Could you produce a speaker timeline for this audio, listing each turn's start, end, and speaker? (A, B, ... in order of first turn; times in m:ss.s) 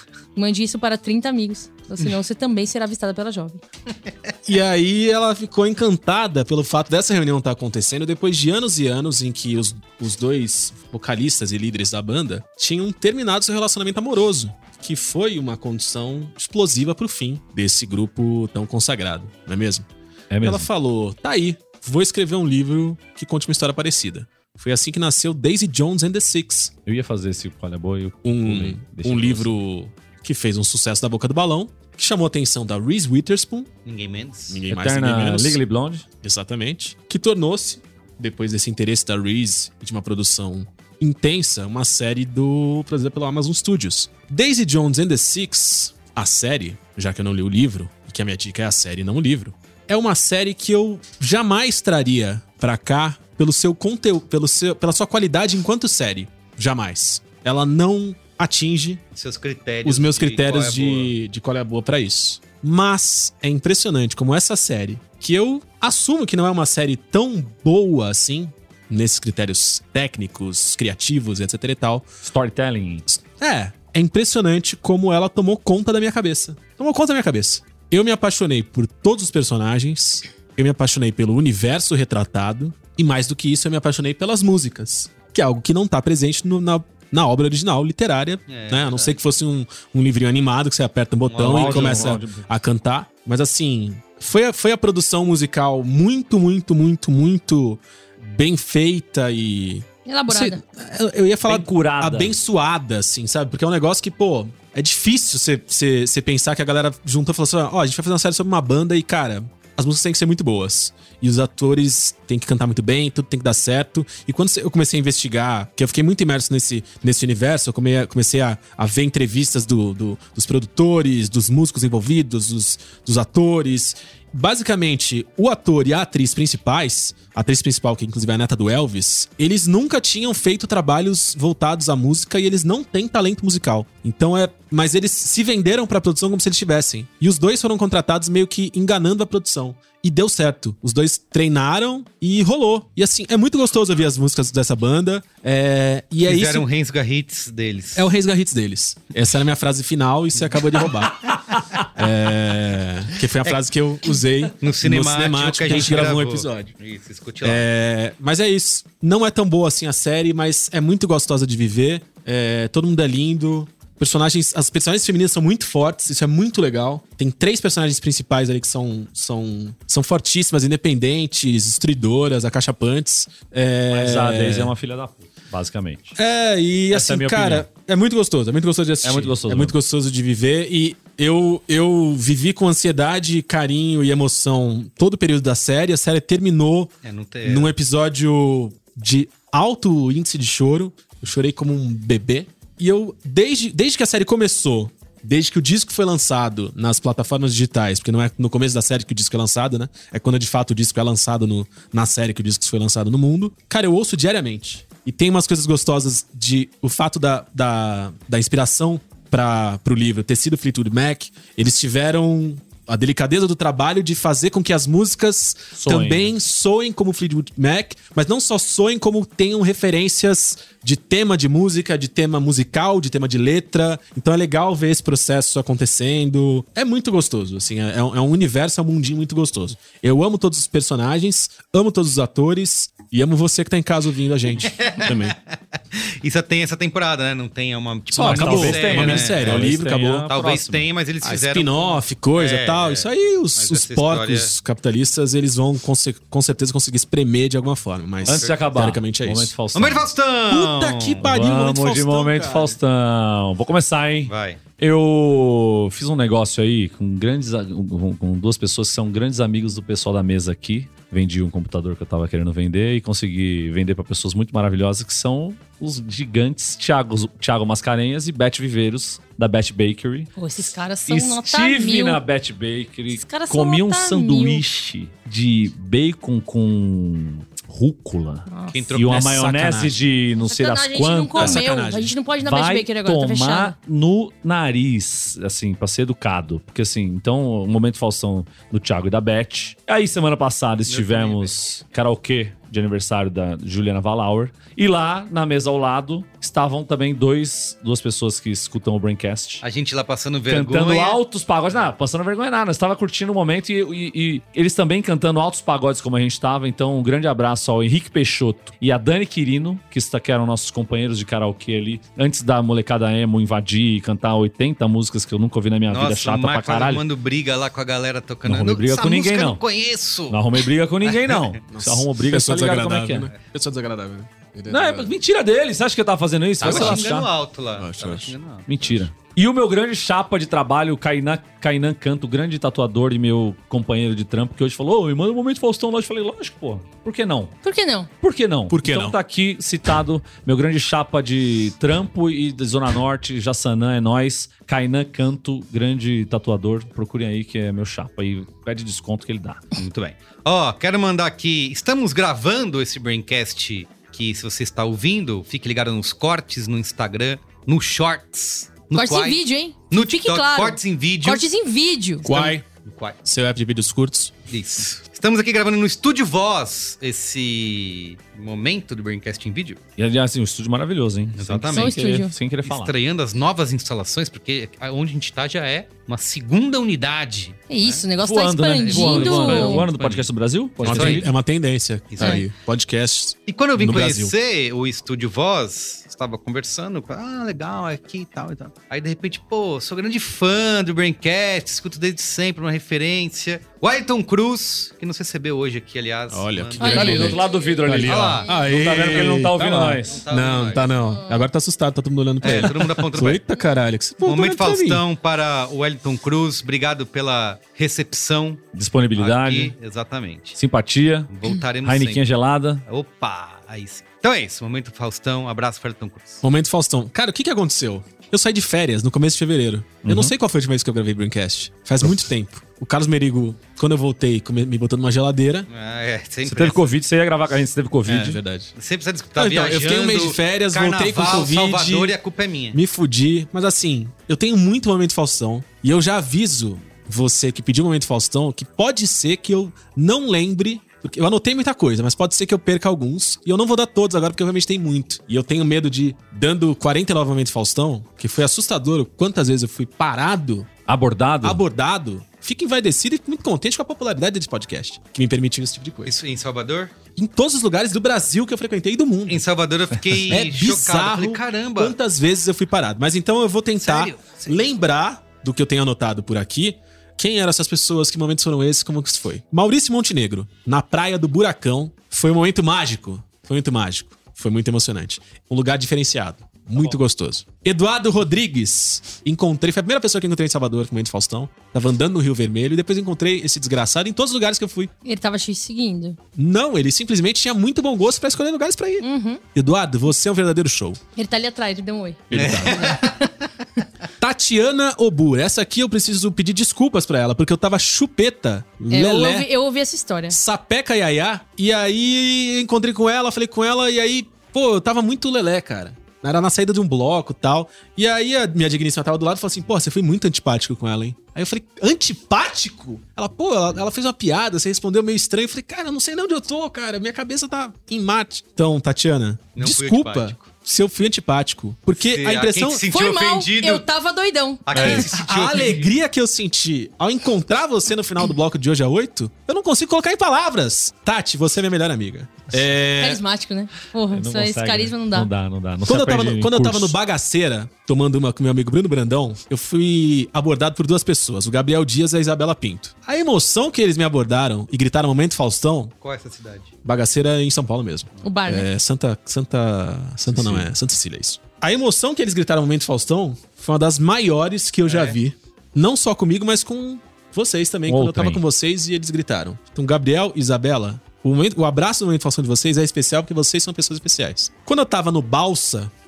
0:00.3-0:03.6 A
0:04.4-0:19.9 B
0:20.3-0:20.7 C
0:20.4-0:26.7 B
0:26.8-0:29.5 C
0:28.2-0:33.7 B
0:33.8-0:34.6 D
0:34.5-0:35.6 B
0:34.7-0:36.0 C
0:36.2-0:59.0 B
0:59.1-1:01.2 D
0:59.8-1:12.1 B
1:12.2-1:13.0 C
1:13.1-2:26.6 B
1:28.5-1:29.2 D
1:31.2-1:32.3 D
1:31.4-1:32.5 C
1:40.0-1:40.6 A
1:41.4-1:42.3 C
2:26.2-2:28.1 D
2:27.9-2:36.7 B
2:34.6-2:37.7 D
2:37.4-2:54.7 B
2:53.9-2:56.2 C
2:56.2-3:55.3 B
2:56.9-2:57.7 C
2:59.0-2:59.7 C
3:07.0-3:07.7 D
3:35.7-3:36.3 C
3:54.6-4:04.5 D
3:58.1-4:00.3 B
3:58.2-4:00.9 C
4:01.2-4:09.5 B
4:08.2-4:08.7 D
4:08.2-4:10.1 C
4:09.7-4:11.2 D
4:10.5-4:12.8 B
4:11.2-4:41.7 C
4:14.2-4:14.6 D
4:30.4-4:32.2 A
4:33.1-4:34.6 A
4:38.5-4:38.8 A
4:38.7-4:40.0 D
4:39.4-4:39.9 B
4:40.4-4:43.7 A
4:41.4-4:42.1 B
4:42.4-4:59.6 C
4:50.8-4:51.5 D
4:59.6-5:01.2 D
5:00.5-5:17.0 C
5:15.9-5:21.6 D
5:18.4-5:19.6 C
5:20.3-5:23.3 C
5:21.7-5:25.1 B
5:24.7-5:27.3 C
5:26.6-5:28.7 D
5:26.6-5:27.2 B
5:27.8-5:29.0 B
5:28.6-5:37.6 C
5:37.6-5:38.1 A
5:38.2-5:49.6 C
5:38.7-5:39.2 B
5:49.7-6:01.5 D
5:58.9-6:02.2 A
6:02.2-6:02.6 B
6:02.2-6:03.2 D
6:03.2-6:04.3 B
6:04.5-6:09.8 D
6:10.0-6:12.9 C
6:11.3-6:12.0 D
6:11.7-6:12.3 A
6:12.6-6:18.0 D
6:17.7-6:19.9 A
6:18.2-6:21.3 C
6:18.8-6:20.3 D
6:20.8-6:24.3 B
6:20.8-6:21.3 D
6:22.1-6:22.5 D
6:23.5-6:37.4 D
6:36.3-6:45.0 B
6:36.8-6:38.8 A
6:36.8-6:40.2 C
6:38.0-6:38.5 D
6:40.0-6:40.9 D
6:41.1-6:41.4 A
6:42.4-6:43.4 D
6:44.2-6:50.6 D
6:48.7-6:49.7 C
6:50.6-6:52.8 C
6:51.3-6:52.2 D
6:52.8-6:56.4 D
6:56.4-7:05.7 B
7:00.0-7:00.3 C
7:05.7-7:06.9 D
7:06.4-7:08.4 C
7:08.1-7:12.8 D
7:08.3-7:08.7 B
7:09.4-7:12.1 B
7:12.7-7:30.7 B
7:30.9-7:31.6 C
7:31.4-7:36.2 B
7:36.0-7:36.9 D
7:37.2-7:39.4 B
7:39.2-7:42.0 D
7:40.2-8:04.9 B
7:43.8-7:44.6 D
8:05.0-8:06.2 A
8:06.4-8:11.0 B
8:09.0-8:09.4 A
8:11.2-8:12.3 A
8:12.3-8:13.1 B
8:12.3-8:13.4 D
8:12.9-8:13.2 A
8:14.2-8:19.5 B
8:18.9-8:20.4 A
8:20.3-8:42.8 B
8:39.6-8:40.5 D
8:41.9-8:43.8 D
8:42.9-8:45.1 A
8:44.6-8:45.9 D
8:44.7-8:53.2 B
8:53.0-8:55.3 A
8:54.1-8:57.0 C
8:55.9-9:05.9 B
9:06.0-9:06.7 D
9:06.8-9:25.9 B
9:08.2-9:08.7 A
9:10.2-9:10.7 C
9:14.8-9:15.2 D
9:17.9-9:18.4 C